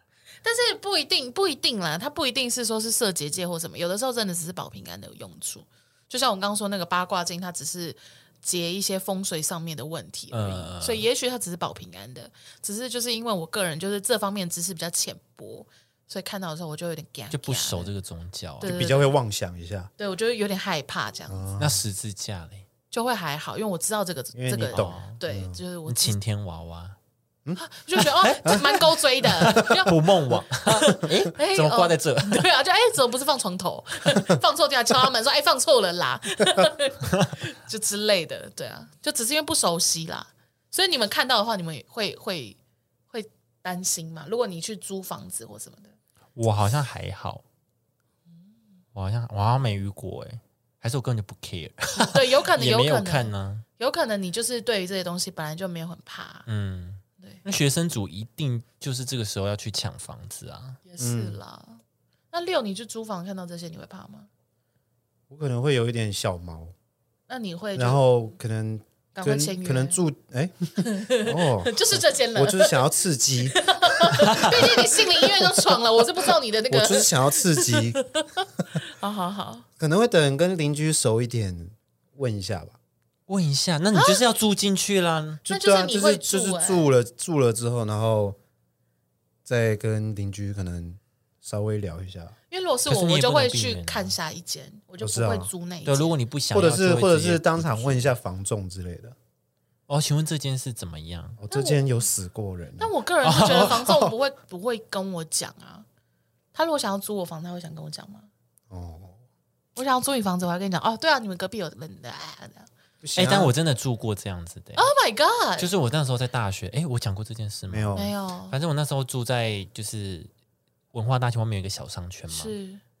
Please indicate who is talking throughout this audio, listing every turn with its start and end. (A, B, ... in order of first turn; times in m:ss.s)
0:00.4-0:17.9 A
0:10.3-0:11.0 B
0:17.3-0:18.8 B
0:18.6-0:19.1 A
0:18.6-0:19.9 C
0:20.0-0:21.5 A
0:21.3-0:21.8 C
0:21.6-0:22.6 B
0:22.9-0:26.2 A
0:24.3-0:25.6 C
0:24.7-0:25.2 B
0:25.8-0:27.0 B
0:27.6-0:30.0 A
0:28.0-0:32.4 B
0:29.4-0:29.7 C
0:30.7-0:42.6 A
0:37.1-0:37.3 B
0:43.1-0:45.9 A
0:46.4-0:47.4 B
0:48.9-0:53.6 B
0:52.0-0:56.4 A
0:56.4-1:00.8 B
1:00.8-1:01.8 A
1:01.0-1:01.4 C
1:02.3-1:04.3 A
1:05.3-1:06.7 C
1:07.3-1:08.0 A
1:07.7-1:15.8 C
1:09.1-1:10.0 A
1:10.8-1:12.9 A
1:13.4-1:19.6 A
1:14.2-1:14.5 B
1:16.7-1:18.0 C
1:19.8-1:22.8 C
1:23.3-1:25.4 B
1:23.9-1:24.2 A
1:25.4-1:28.4 C
1:25.5-1:26.9 A
1:29.4-1:32.3 C
1:32.5-1:36.1 A
1:32.8-1:34.1 B
1:35.0-1:35.5 C
1:35.8-1:38.1 B
1:36.5-1:39.1 C
1:39.9-1:41.4 B
1:41.4-1:42.9 C
1:41.5-1:41.8 A
1:42.8-1:45.8 A
1:43.2-1:44.0 B
1:46.5-1:48.3 A
1:48.7-1:49.2 C
1:49.8-1:52.7 A
1:53.0-1:53.5 C
1:53.2-1:54.9 B
1:54.8-1:55.7 A
1:55.6-2:00.3 B
1:57.7-1:58.1 C
1:57.9-1:58.6 A
2:00.9-2:02.5 B
2:02.3-2:02.8 A